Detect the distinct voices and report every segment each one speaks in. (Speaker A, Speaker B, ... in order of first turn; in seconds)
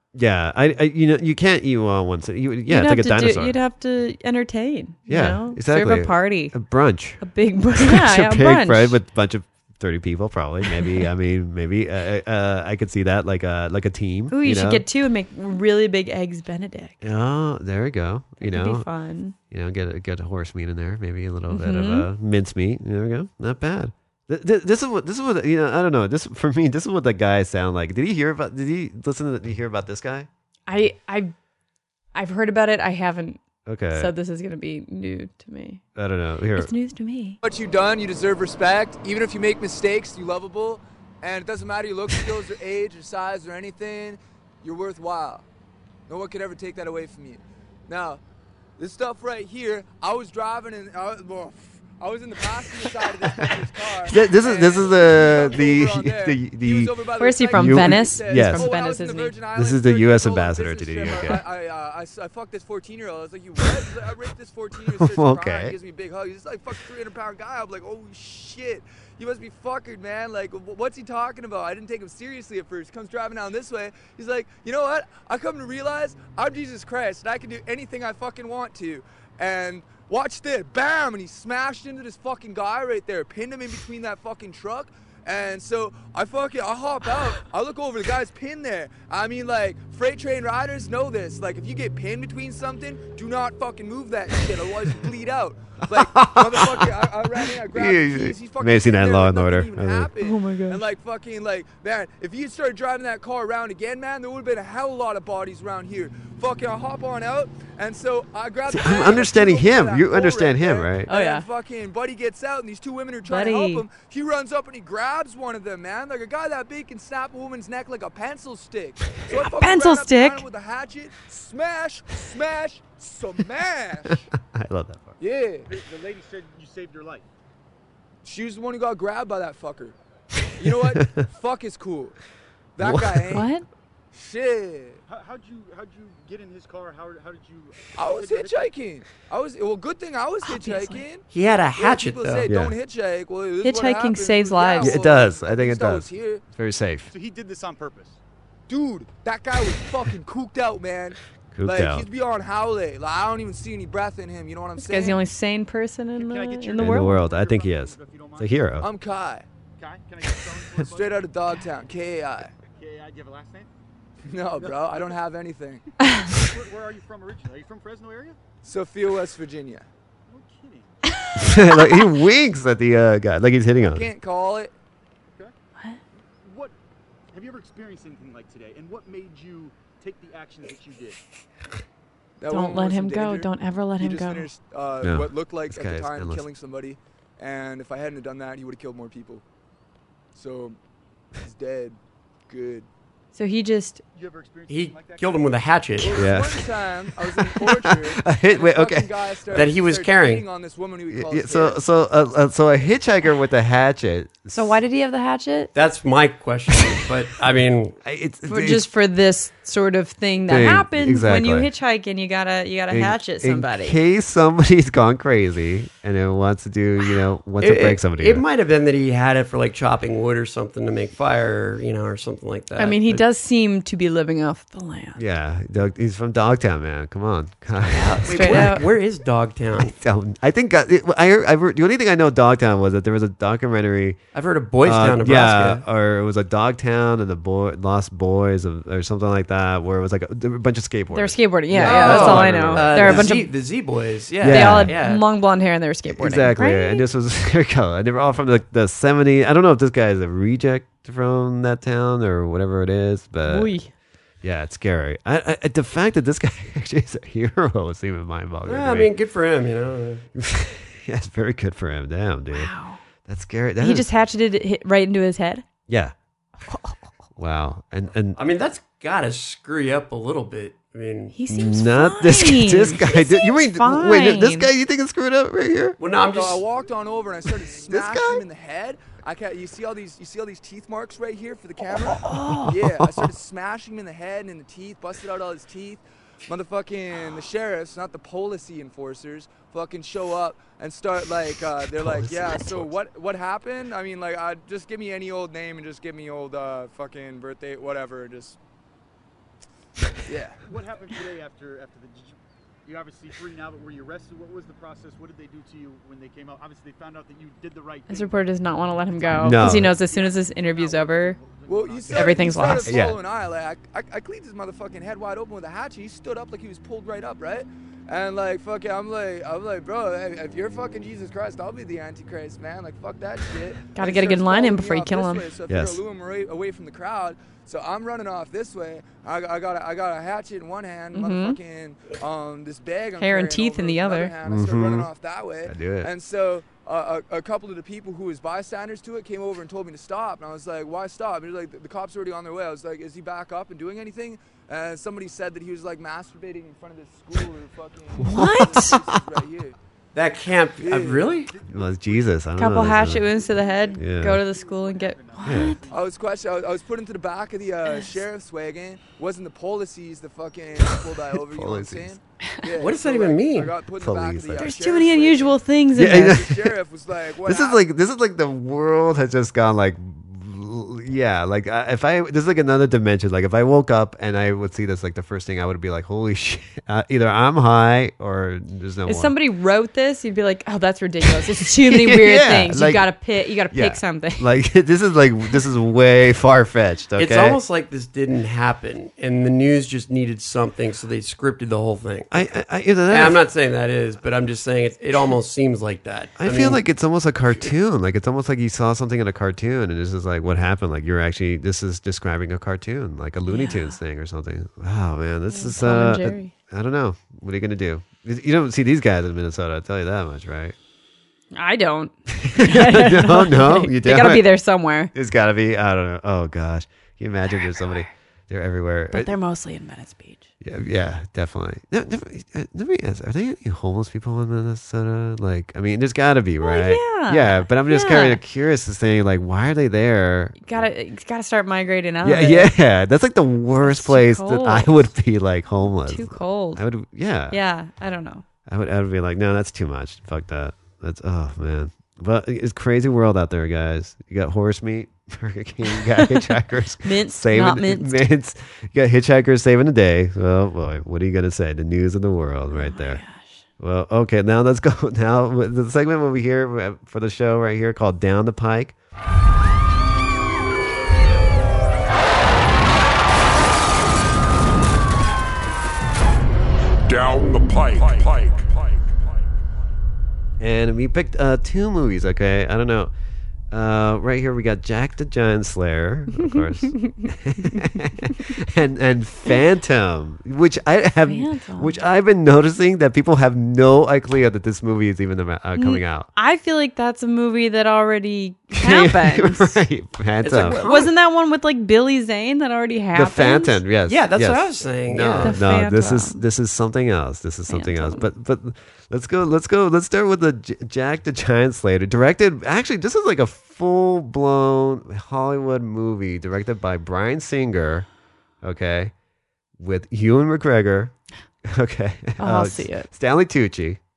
Speaker A: 0.1-3.6, 5.1-7.2, 7.8-14.8, 17.0-18.9, 19.5-30.3, 33.6-34.1, 36.0-36.7, 54.0-57.0, 57.5-58.7, 59.5-61.4, 64.9-65.8, 95.9-96.9, 97.5-100.1, 108.7-111.1, 124.3-125.2, 132.8-133.4, 142.5-142.7, 144.8-147.1, 151.5-152.1, 156.8-158.9, 171.3-174.1, 185.0-186.4, 196.1-199.1, 201.1-204.7, 208.0-208.9, 210.5-211.7, 212.9-218.4, 225.2-228.8, 229.8-234.2, 234.8-243.3, 244.4-245.0, 246.1-253.7, 254.4-259.1, 260.4-262.7, 263.2-264.1, 265.9-266.1, 267.4-268.4, 271.5-276.0, 277.9-278.4, 282.3-283.3, 291.9-292.9, 309.4-309.9, 312.9-313.2, 325.7-326.0, 334.4-335.1, 335.6-336.1, 348.2-349.2, 351.6-353.3, 353.9-354.4, 355.4-355.8, 360.8-362.1, 364.0-364.7, 365.9-366.8, 367.4-379.3, 381.8-383.1, 383.7-387.6, 392.3-393.4, 396.4-410.8, 412.3-414.5, 415.1-419.3, 420.6-430.9, 432.2-437.6, 438.7-453.2, 453.8-458.9, 470.6-473.1, 473.7-486.3, 488.7-490.8, 493.1-508.1, 508.6-509.1, 509.8-511.1, 511.6-514.0
Speaker B: 2.7-6.5, 7.2-9.0, 14.3-17.0, 18.4-19.3, 21.5-22.1, 30.7-31.3, 32.1-33.4, 33.9-35.8, 36.5-37.4, 57.2-59.4, 100.2-100.8, 111.1-111.5, 113.2-113.8, 119.3-120.5, 133.3-133.6, 140.4-141.0, 143.6-145.0, 154.8-157.2, 182.5-184.5, 193.3-194.0, 204.5-205.7, 208.5-214.0, 222.8-225.2, 227.8-228.8, 241.1-243.5, 244.5-247.0, 253.4-253.9, 262.5-263.0, 263.8-265.6, 266.7-267.0, 271.3-274.7, 282.2-282.7, 308.1-311.4, 312.1-312.9, 323.9-325.5, 331.1-331.6, 333.2-334.3, 348.2-348.9, 352.6-355.8, 357.9-358.2, 364.6-366.4, 379.1-384.5, 403.5-404.0, 405.5-406.5, 411.5-415.1, 419.1-420.4, 426.6-428.4, 430.6-432.7, 433.8-435.1, 436.0-436.8, 437.5-438.4, 447.0-448.2, 452.7-453.6, 476.4-477.8, 481.2-482.0, 485.8-489.8, 490.5-493.8, 495.4-496.4, 497.7-498.2, 512.4-513.1
Speaker C: 37.4-45.4, 46.1-48.2, 48.8-124.3, 125.2-125.7, 128.2-129.9, 130.6-132.2, 132.8-133.5, 134.1-135.0, 137.9-141.2, 141.8-146.4, 148.7-155.2, 158.8-159.4, 160.8-162.5, 164.3-165.8, 168.6-169.9, 173.8-174.7, 182.4-189.4, 190.3-190.8, 191.4-192.9, 196.0-201.8, 276.3-298.6, 300.2-300.6, 311.7-349.7, 350.8-351.4, 355.9-367.8
Speaker D: 125.7-127.2, 135.1-138.8, 147.1-148.2, 156.2-158.7, 159.8-161.4, 162.7-163.7, 164.5-165.2, 166.3-168.4, 170.3-171.0, 176.4-176.7, 177.3-181.2, 194.1-195.7, 300.6-312.9, 351.5-356.2
Speaker E: 141.3-142.5, 194.7-196.2, 199.5-200.4, 205.7-207.9, 217.6-223.2, 228.2-229.9, 234.3-235.8, 241.7-245.2, 258.6-260.2, 268.4-271.3, 276.0-276.6, 350.1-351.5, 362.8-363.7, 387.2-392.5, 393.1-396.8, 490.4-491.1, 494.1-495.6
Speaker F: 467.1-469.4